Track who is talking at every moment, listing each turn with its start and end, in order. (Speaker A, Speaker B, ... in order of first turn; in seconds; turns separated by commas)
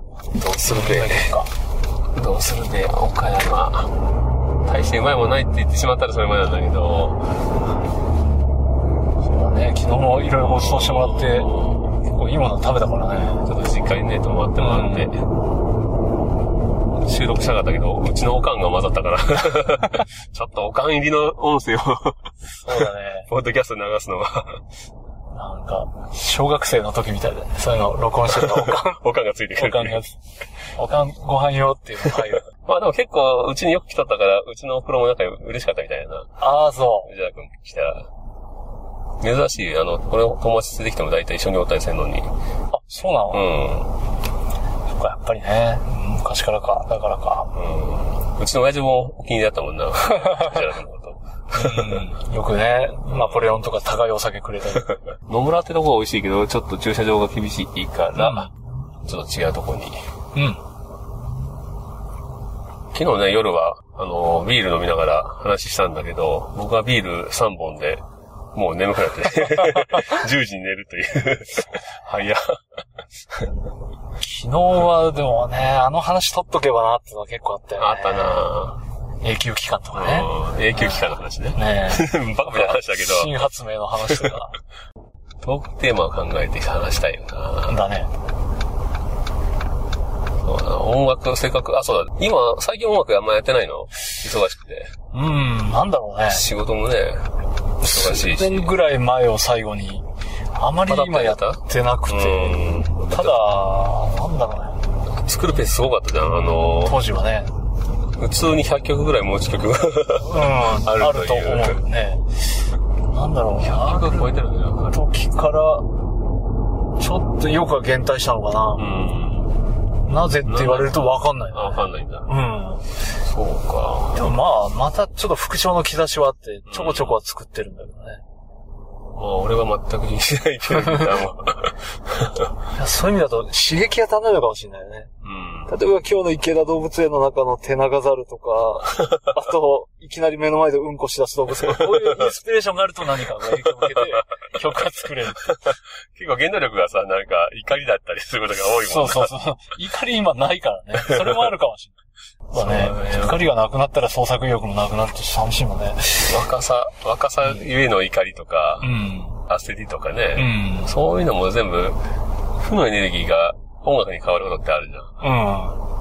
Speaker A: 0.3-1.4, Speaker B: 0.6-1.5, Speaker A: 2.1-3.9, Speaker A: 4.7-7.2, Speaker B: 9.2-13.5, Speaker A: 10.4-11.8, Speaker A: 13.5-15.2, Speaker B: 14.6-15.1, Speaker A: 16.9-24.6, Speaker B: 22.6-23.3, Speaker B: 25.3-29.0, Speaker A: 28.3-30.0, Speaker B: 29.6-30.2, Speaker B: 30.8-32.5, Speaker A: 32.0-36.3, Speaker B: 36.4-37.1, Speaker A: 37.1-38.1, Speaker A: 39.2-42.3, Speaker B: 42.7-43.6, Speaker A: 43.3-43.9, Speaker B: 44.9-47.5, Speaker A: 47.5-52.1, Speaker B: 51.5-55.0, Speaker A: 53.1-53.6, Speaker A: 55.2-58.5, Speaker B: 58.1-58.5, Speaker A: 59.0-60.0, Speaker B: 60.4-60.6, Speaker A: 62.9-72.6, Speaker B: 74.2-78.5, Speaker A: 77.8-78.8, Speaker B: 79.2-84.5, Speaker A: 79.9-83.3, Speaker A: 84.1-84.3, Speaker A: 85.4-87.8, Speaker B: 87.7-88.1, Speaker A: 90.4-94.9, Speaker B: 95.1-96.5, Speaker A: 96.3-97.3, Speaker B: 97.8-104.8, Speaker A: 97.8-98.8, Speaker A: 100.9-103.4, Speaker A: 105.2-107.0, Speaker B: 106.5-107.5, Speaker A: 108.2-111.8, Speaker B: 110.2-112.4, Speaker B: 113.1-114.3, Speaker A: 113.6-115.0, Speaker B: 114.9-115.9, Speaker B: 117.0-119.0, Speaker A: 118.8-119.6, Speaker B: 120.1-122.8, Speaker A: 120.5-122.3, Speaker A: 123.2-124.3, Speaker B: 124.1-128.2, Speaker A: 126.7-127.2, Speaker A: 129.2-132.5, Speaker B: 130.7-131.1, Speaker B: 132.7-135.1, Speaker A: 135.2-135.7, Speaker B: 135.7-145.7, Speaker A: 141.7-142.2, Speaker A: 143.8-144.2, Speaker A: 145.4-149.3, Speaker B: 148.8-151.9, Speaker A: 151.0-151.5, Speaker B: 152.5-156.4, Speaker A: 152.5-153.5, Speaker A: 156.3-159.0, Speaker B: 158.8-159.4, Speaker A: 159.5-162.0, Speaker B: 160.3-160.9, Speaker A: 162.6-165.2, Speaker B: 165.2-165.8